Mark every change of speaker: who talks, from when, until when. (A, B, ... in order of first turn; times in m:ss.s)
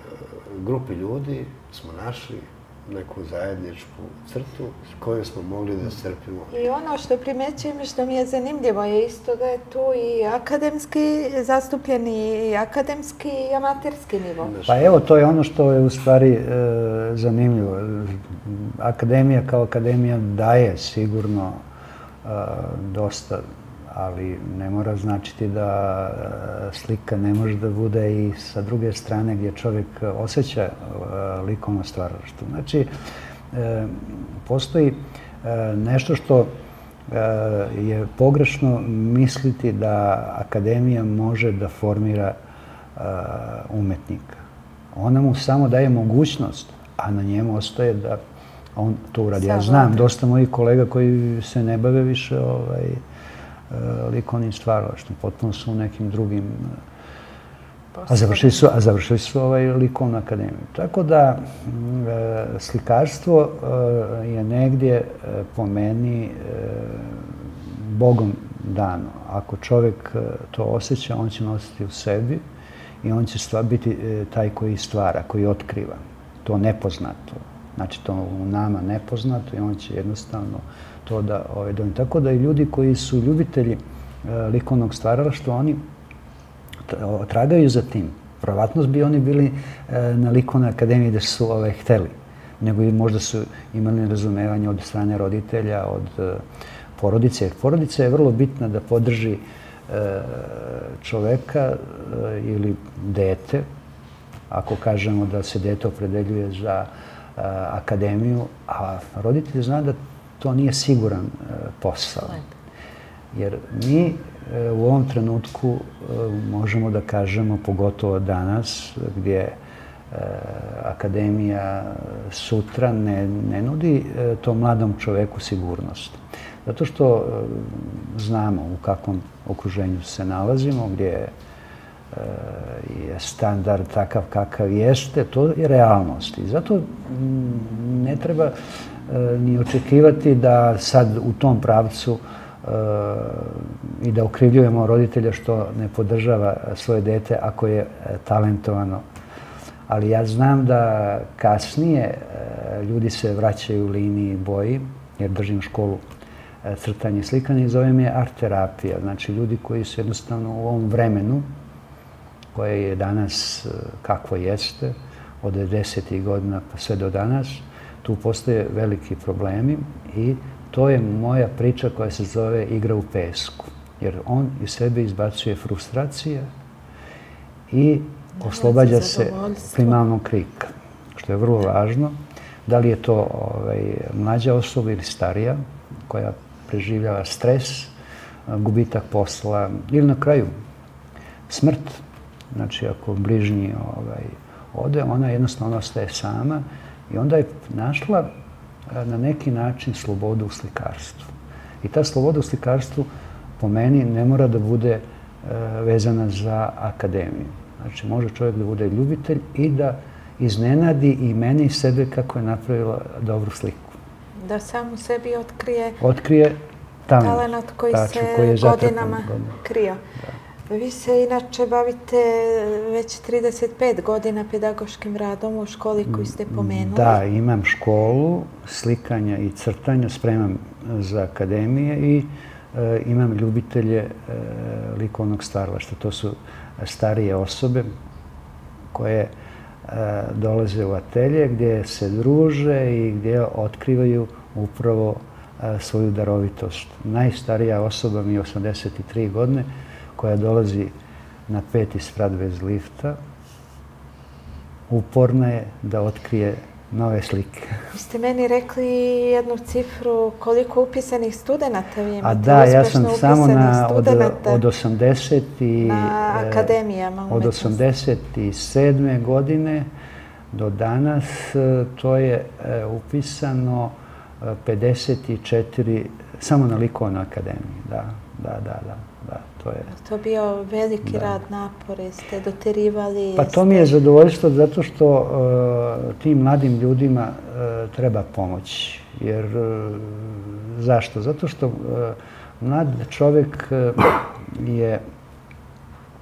0:00.4-0:06.6 A
0:06.5-0:14.5 B
0:14.4-0:15.1 A
0:14.7-0:21.6 C
0:22.2-0:32.9 C
0:33.5-0:36.5 C
0:37.1-0:42.4 C
0:43.0-0:44.4 C
0:44.9-0:48.2 C
0:48.8-0:53.0 C
0:49.4-0:50.0 B
0:53.7-0:56.8 C
0:57.9-0:58.7 B
0:58.1-1:12.4 C
1:13.0-1:25.8 C
1:26.9-1:36.4 C
1:37.0-1:43.6 C
1:44.5-1:52.4 C
1:53.3-1:59.6 C
2:00.1-2:11.3 C
2:12.1-2:18.6 C
2:19.1-2:29.0 C
2:29.9-2:36.0 C
2:36.6-2:41.5 C
2:42.5-2:56.5 C
2:57.7-3:07.9 C
2:58.4-3:00.0 B
3:08.5-3:10.5 C
3:11.5-3:18.3 C
3:18.9-3:21.3 C
3:21.8-3:23.1 C
3:23.6-3:34.0 C
3:34.4-3:36.0 B
3:36.0-3:39.6 C
3:37.2-3:40.0 B
3:40.7-3:47.2 B
3:46.1-3:57.9 C
3:58.9-3:59.3 C
3:59.8-4:10.9 C
4:11.5-4:13.2 C
4:14.9-4:17.8 C
4:17.9-4:24.6 B
4:22.2-4:26.8 C
4:25.8-4:27.8 B
4:27.3-4:29.9 C
4:30.5-4:39.9 C
4:39.9-4:43.9 B
4:41.0-4:41.3 C
4:43.4-4:55.0 C